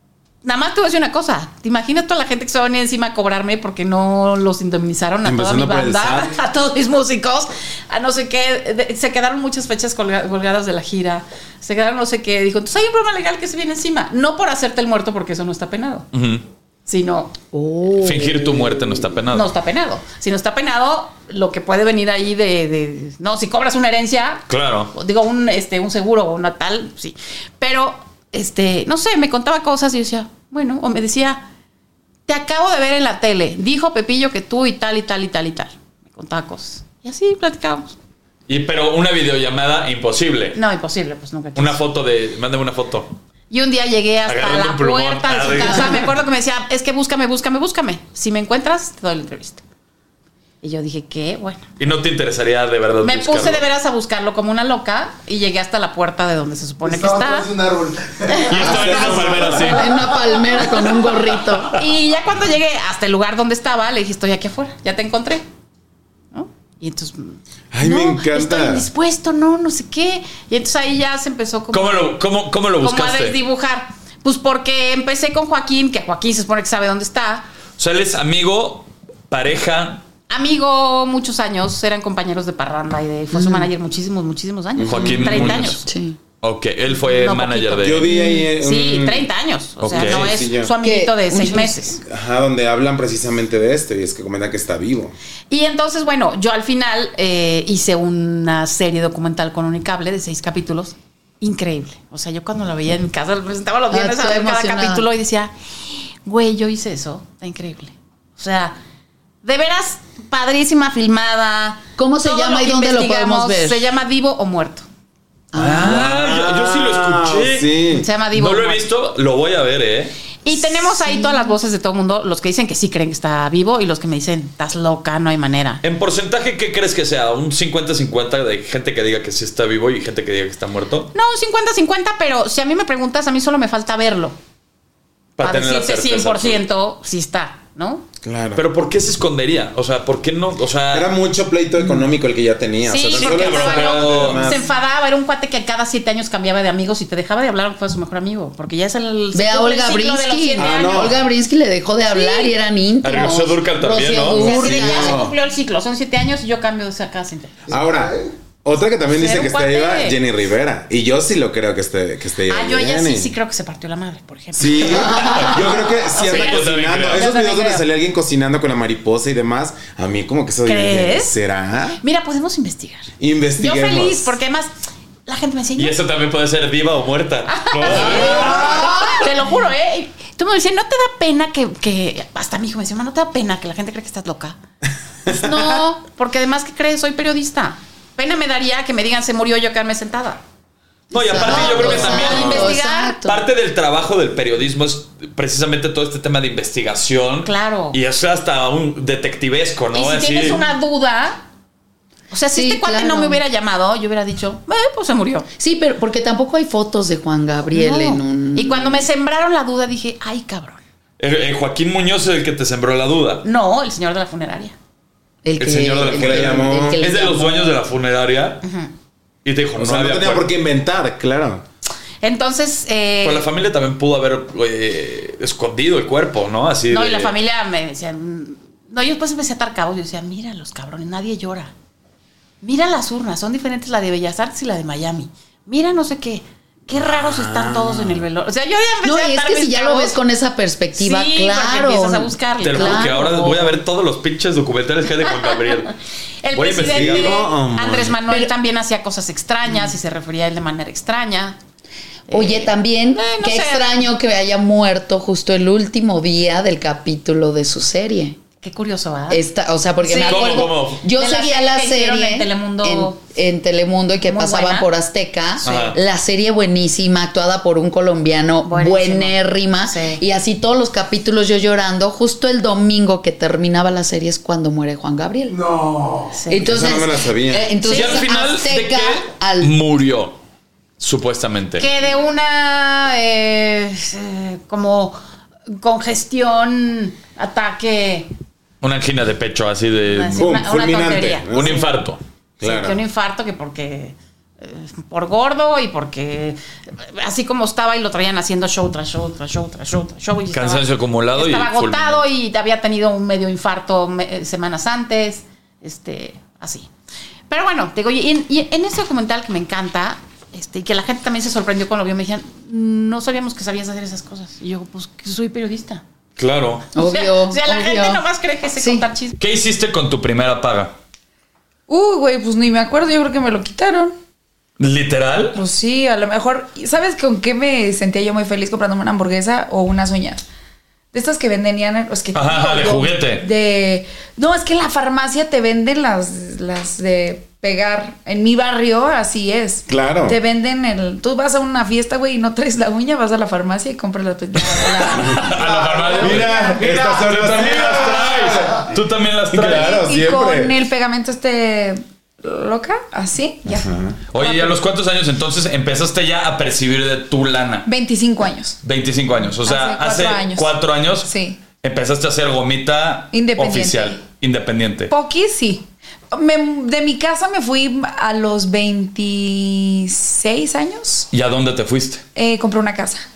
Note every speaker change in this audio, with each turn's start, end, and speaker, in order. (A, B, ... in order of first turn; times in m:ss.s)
0:00.4-0:16.1 A
0:05.2-0:06.3 B
0:16.1-0:16.4 C
0:16.9-0:17.3 A
0:17.5-0:18.8 D
0:18.0-0:19.5 C
0:19.3-0:31.4 A
0:24.5-0:24.9 C
0:32.3-0:38.0 A
0:38.5-0:40.6 C
0:40.5-0:41.8 A
0:41.6-0:43.1 C
0:43.5-0:49.6 A
0:44.3-0:46.1 C
0:50.6-0:51.6 A
0:51.8-0:53.6 C
0:53.0-0:57.5 A
0:57.6-0:58.1 E
0:58.3-0:59.6 A
0:58.4-1:00.1 C
0:58.4-1:01.7 D
0:58.7-0:59.2 B
1:01.3-1:01.8 C
1:01.7-1:05.4 A
1:06.3-1:12.1 A
1:07.7-1:08.8 B
1:11.7-1:13.4 C
1:12.8-1:17.5 A
1:17.8-1:20.0 C
1:20.3-1:25.8 A
1:23.3-1:23.7 D
1:24.8-1:25.5 B
1:24.9-1:25.8 C
1:25.8-1:26.2 D
1:26.4-1:28.1 C
1:26.9-1:32.0 A
1:27.8-1:29.3 B
1:28.1-1:28.5 D
1:29.8-1:30.4 C
1:29.9-1:30.7 B
1:30.8-1:31.9 D
1:32.0-1:35.1 B
1:35.5-1:45.5 A
1:43.9-1:45.0 D
1:46.2-1:48.8 A
1:49.4-1:54.8 A
1:52.0-1:53.9 D
1:55.5-1:56.0 D
1:55.5-1:57.7 C
1:55.8-1:58.1 B
1:57.9-1:58.8 A
1:58.3-2:00.1 C
2:00.4-2:05.8 A
2:01.1-2:01.3 D
2:05.8-2:11.1 C
2:11.1-2:14.4 A
2:15.4-2:16.6 C
2:15.4-2:18.0 A
2:18.2-2:18.6 B
2:18.5-2:21.1 C
2:20.9-2:24.7 B
2:22.9-2:31.2 A
2:23.1-2:24.5 C
2:29.3-2:35.3 D
2:30.6-2:31.2 B
2:32.1-2:32.5 A
2:33.0-2:34.8 C
2:34.4-2:37.7 A
2:34.5-2:35.3 B
2:37.7-2:43.3 B
2:39.1-2:40.2 A
2:42.5-2:47.8 A
2:44.5-2:52.0 B
2:45.1-2:45.6 C
2:46.1-2:47.3 C
2:50.6-2:51.3 A
2:52.0-2:54.7 A
2:53.2-2:54.4 B
2:55.2-2:55.9 A
2:55.8-2:59.3 C
2:57.5-3:04.6 A
2:57.9-2:58.8 B
3:05.3-3:10.4 A
3:05.3-3:05.7 B
3:11.1-3:20.6 C
3:11.1-3:13.3 D
3:11.3-3:13.2 A
3:17.4-3:18.0 A
3:19.9-3:21.4 A
3:22.3-3:25.5 A
3:22.5-3:23.4 D
3:25.6-3:29.0 D
3:27.7-3:30.8 A
3:31.2-3:33.4 C
3:33.4-3:34.7 A
3:35.4-3:37.7 D
3:35.6-3:38.6 C
3:36.1-3:37.0 B
3:38.6-3:38.9 A
3:39.4-3:40.5 C
3:39.8-3:41.6 B
3:42.2-3:43.5 A
3:43.2-3:47.3 C
3:46.9-3:51.7 A
3:52.6-4:00.2 A
3:57.0-3:58.2 B
3:59.0-4:03.8 D
4:00.9-4:03.3 A
4:02.6-4:05.9 C
4:05.2-4:11.6 A
4:06.5-4:07.4 C
4:06.8-4:08.2 B
4:12.3-4:14.1 A
4:12.3-4:18.4 D
4:18.6-4:19.4 A
4:19.3-4:35.7 D
4:20.0-4:23.2 A
4:20.2-4:21.0 C
4:24.2-4:24.9 A
4:25.6-4:26.0 C
4:28.6-4:30.2 A
4:35.7-4:36.1 E
4:36.3-4:36.8 A
4:36.5-4:39.7 D
4:36.6-4:37.8 B
4:37.8-4:38.3 A
4:37.8-4:40.4 C
4:41.0-4:41.9 C
4:41.8-4:45.2 A
4:45.7-4:48.3 A
4:48.8-4:50.5 C
4:50.0-4:51.9 A
4:50.3-4:51.8 B
4:51.5-4:52.2 C
4:52.6-4:53.0 B
4:52.6-5:06.9 A
5:00.5-5:02.2 C
5:07.5-5:16.0 A
5:16.4-5:16.9 C
5:16.9-5:18.2 D
5:17.0-5:19.4 A
5:18.8-5:19.0 D
5:19.4-5:20.9 C
5:21.9-5:24.1 F
5:24.8-5:25.6 C
5:25.5-5:30.4 F
5:31.1-5:46.8 F
5:32.3-5:33.4 C
5:39.9-5:40.4 B
5:44.9-5:49.9 C
5:45.5-5:48.1 E
5:46.1-5:48.9 B
5:49.5-5:50.8 B
5:49.6-5:54.8 F
5:53.7-5:54.2 B
5:54.3-5:57.9 C
5:57.8-5:58.8 F
5:58.8-6:05.1 C
5:59.6-6:01.6 F
6:03.3-6:04.2 F
6:05.1-6:11.3 F
6:11.3-6:12.2 C
6:12.3-6:13.2 F